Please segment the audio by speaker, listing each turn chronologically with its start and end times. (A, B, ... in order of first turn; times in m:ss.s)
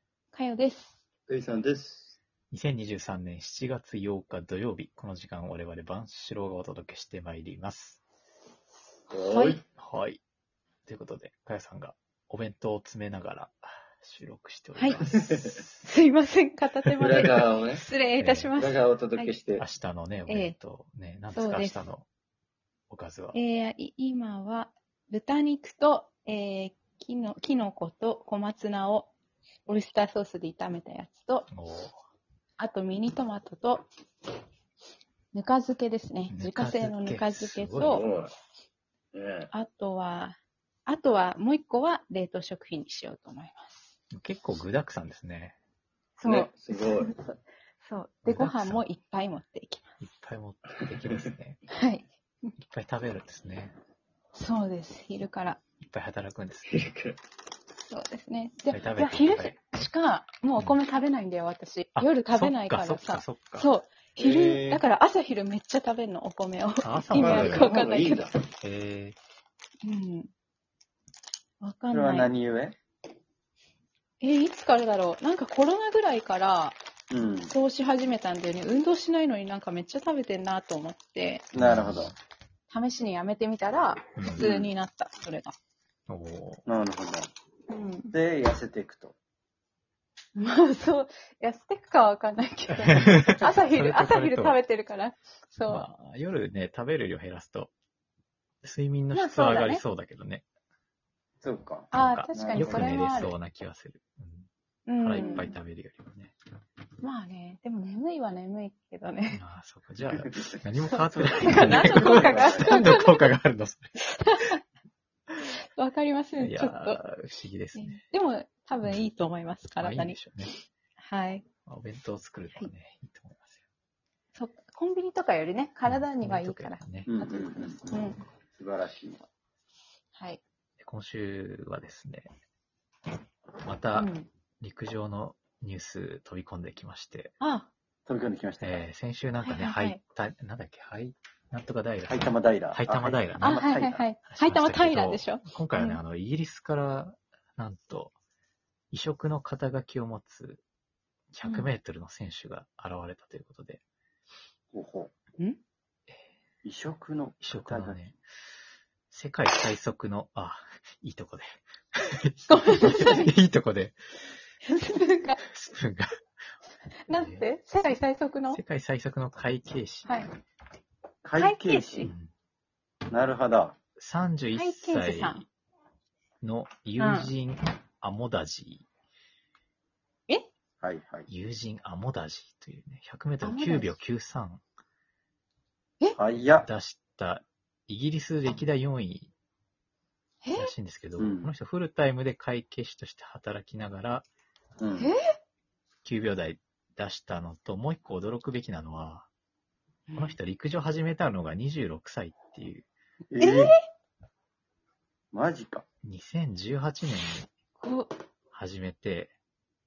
0:00.3-0:01.0 A
0:01.3-0:02.2 B
0:02.5-0:08.0 C
0:09.1-0:09.6 B
0:09.1-0:09.6 A
0:09.8-0:10.2 C
0:10.9-0:15.8 C
0:14.8-0:15.0 A
0:15.0-0:15.6 B
0:15.8-0:19.3 A
0:17.0-0:17.8 B
0:18.2-0:18.6 C
0:18.6-0:19.6 B
0:19.6-0:22.1 C
0:20.3-0:20.6 A
0:21.3-0:21.8 A
0:22.9-0:23.4 C
0:23.3-0:29.1 A
0:29.7-0:31.5 A
0:31.5-0:31.9 C
0:32.6-0:33.9 A
0:35.3-0:38.1 A
0:36.3-0:38.0 C
0:37.8-0:38.3 B
0:39.1-0:39.5 B
0:39.5-0:40.4 A
0:40.9-0:43.9 A
0:44.1-0:45.6 C
0:46.2-0:47.2 A
0:46.2-0:47.2 B
0:47.8-0:50.0 A
0:48.2-0:48.8 C
0:50.0-0:51.6 C
0:51.7-0:52.1 A
0:52.6-0:53.7 C
0:54.3-0:55.6 A
0:55.8-0:56.8 C
0:56.7-0:57.2 B
0:57.9-1:08.3 A
0:58.7-0:59.6 C
1:02.0-1:03.7 C
1:04.2-1:04.8 B
1:06.8-1:07.7 C
1:07.1-1:08.4 B
1:08.6-1:09.2 C
1:09.8-1:10.3 A
1:11.6-1:12.3 A
1:11.9-1:12.8 B
1:14.2-1:16.8 A
1:17.1-1:17.6 B
1:17.5-1:21.5 A
1:21.5-1:22.1 B
1:21.6-1:22.2 C
1:22.7-1:25.6 A
1:24.2-1:24.4 C
1:24.4-1:24.7 B
1:26.1-1:26.6 C
1:26.7-1:27.3 B
1:27.7-1:28.2 A
1:28.1-1:29.2 B
1:30.4-1:35.9 A
1:32.8-1:34.6 C
1:35.7-1:37.7 C
1:38.6-1:40.4 C
1:39.1-1:39.8 A
1:41.4-1:43.0 B
1:41.9-1:43.4 A
1:41.9-1:44.5 C
1:44.9-1:45.6 A
1:45.0-1:46.3 C
1:45.2-1:45.5 B
1:47.0-1:49.4 A
1:49.3-1:53.9 C
1:50.2-1:50.5 B
1:50.9-1:53.4 A
1:51.1-1:53.0 B
1:54.0-1:54.6 A
1:55.8-1:57.0 A
1:56.4-1:58.0 C
1:57.8-2:01.4 A
1:59.8-2:00.5 C
2:01.7-2:03.6 C
2:04.4-2:08.2 A
2:05.9-2:07.1 C
2:07.1-2:07.9 B
2:08.5-2:09.2 B
2:10.2-2:10.4 A
2:10.8-2:12.3 C
2:13.6-2:17.4 C
2:14.0-2:14.3 A
2:17.4-2:17.7 A
2:18.1-2:18.9 B
2:18.6-2:23.6 C
2:19.4-2:20.0 A
2:22.1-2:24.0 B
2:23.4-2:26.0 A
2:24.3-2:28.2 C
2:28.9-2:30.6 C
2:31.3-2:33.8 C
2:31.4-2:31.7 A
2:34.7-2:35.1 B
2:36.6-2:38.0 B
2:37.4-2:38.2 C
2:39.1-2:44.0 C
2:42.5-2:43.4 A
2:44.6-2:45.4 A
2:45.4-2:46.1 C
2:47.1-2:48.6 A
2:47.1-2:47.4 C
2:48.5-2:50.3 C
2:51.2-2:52.1 B
2:51.4-2:52.1 A
2:52.0-2:52.3 C
2:53.1-2:53.8 B
2:54.0-2:55.4 C
2:54.6-2:55.5 A
2:56.4-2:58.9 C
2:57.0-2:57.3 A
3:00.8-3:01.3 B
3:01.3-3:04.6 C
3:03.4-3:03.9 A
3:06.2-3:06.7 B
3:06.5-3:09.3 C
3:10.4-3:10.7 A
3:10.6-3:14.3 C
3:11.2-3:11.5 B
3:14.8-3:15.1 B
3:15.0-3:15.2 A
3:16.0-3:19.3 C
3:20.1-3:20.4 A
3:20.2-3:22.9 C
3:23.3-3:23.8 B
3:23.4-3:23.8 A
3:25.3-3:25.8 B
3:26.0-3:27.5 C
3:27.8-3:28.1 A
3:28.5-3:29.3 C